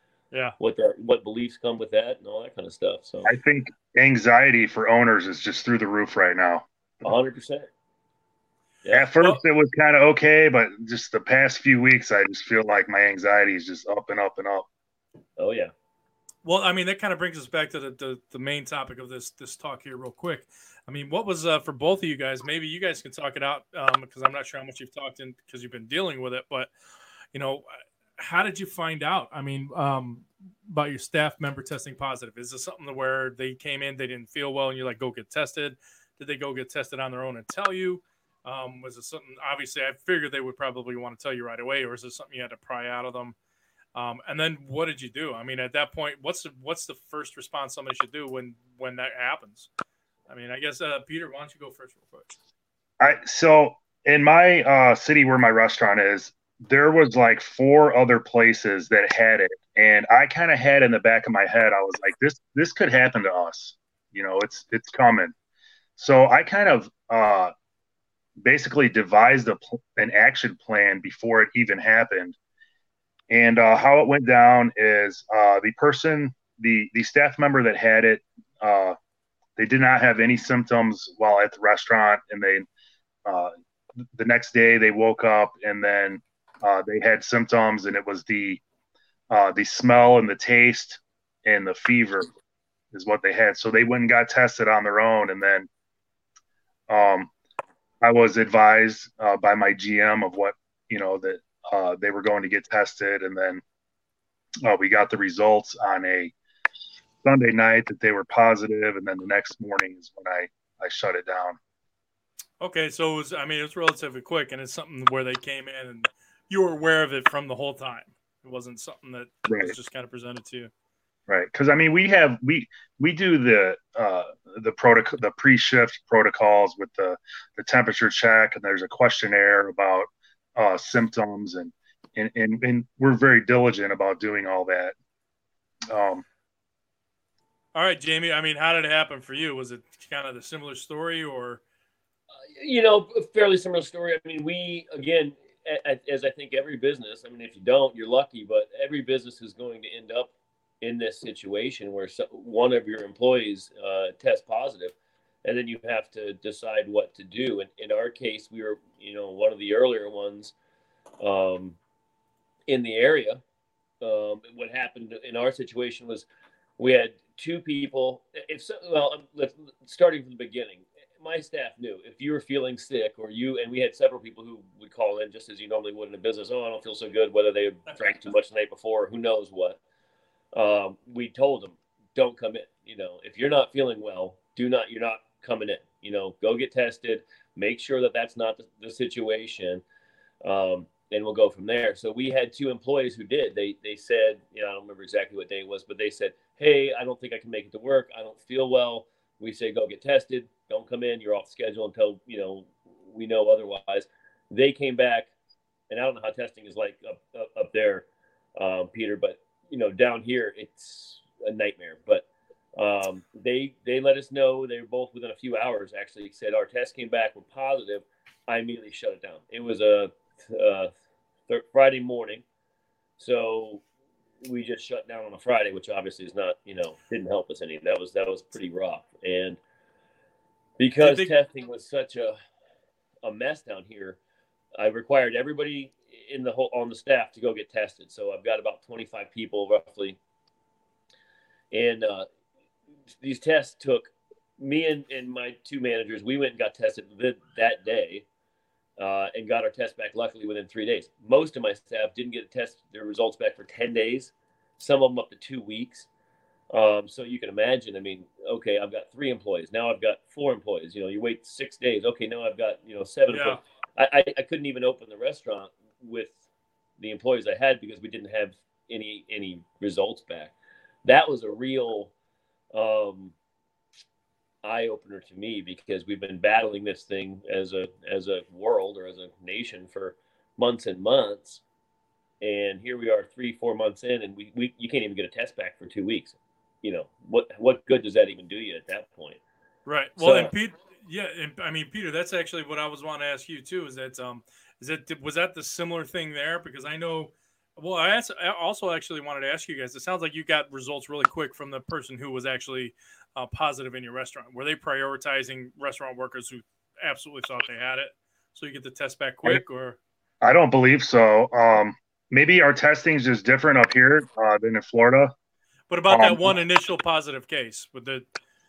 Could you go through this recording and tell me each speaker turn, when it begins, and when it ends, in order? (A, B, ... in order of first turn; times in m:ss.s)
0:00.6-0:03.3 A
0:03.3-0:06.7 B
0:07.0-0:07.7 A
0:08.8-0:09.1 A
0:08.9-0:14.7 B
0:15.4-0:15.7 A
0:16.4-0:26.7 C
0:27.3-0:27.7 C
0:28.2-0:43.4 C
0:44.0-0:49.7 C
0:50.3-0:52.4 C
0:53.0-1:05.3 B
1:06.0-1:07.5 B
1:08.4-1:12.4 B
1:13.3-1:19.0 B
1:19.6-1:22.7 B
1:23.3-1:23.5 B
1:24.1-1:28.6 B
1:29.3-1:32.3 B
1:32.9-1:35.7 B
1:36.9-1:37.3 B
1:38.0-1:43.6 B
1:44.6-1:46.3 B
1:47.2-1:51.6 B
1:52.6-2:00.7 C
1:59.5-1:59.8 B
2:01.3-2:15.0 B
2:15.9-2:16.2 B
2:17.7-2:21.6 C
2:22.6-2:40.5 A
2:41.2-2:41.8 A
2:42.7-2:43.4 A
2:44.0-2:46.3 A
2:46.8-2:59.8 A
2:57.9-2:58.2 C
3:00.6-3:09.8 A
3:10.4-3:25.3 A
3:25.9-3:28.1 A
3:28.6-3:40.9 A
3:41.5-3:42.4 A
3:43.2-3:43.8 A
3:44.4-3:49.6 A
3:50.8-3:52.4 A
3:51.0-3:51.3 C
3:53.2-3:54.2 A
3:54.8-4:00.2 A
4:01.7-4:02.3 A
4:03.2-4:08.3 A
4:09.0-4:16.1 A
4:16.7-4:26.4 A
4:23.3-4:23.6 C
4:27.0-4:32.1 A
4:32.7-4:33.3 A
4:34.6-4:41.6 A
4:42.4-4:49.4 A
4:49.9-5:10.0 C
4:50.2-4:50.5 A
5:10.4-5:15.3 B
5:15.9-5:18.2 C
5:16.1-5:16.6 B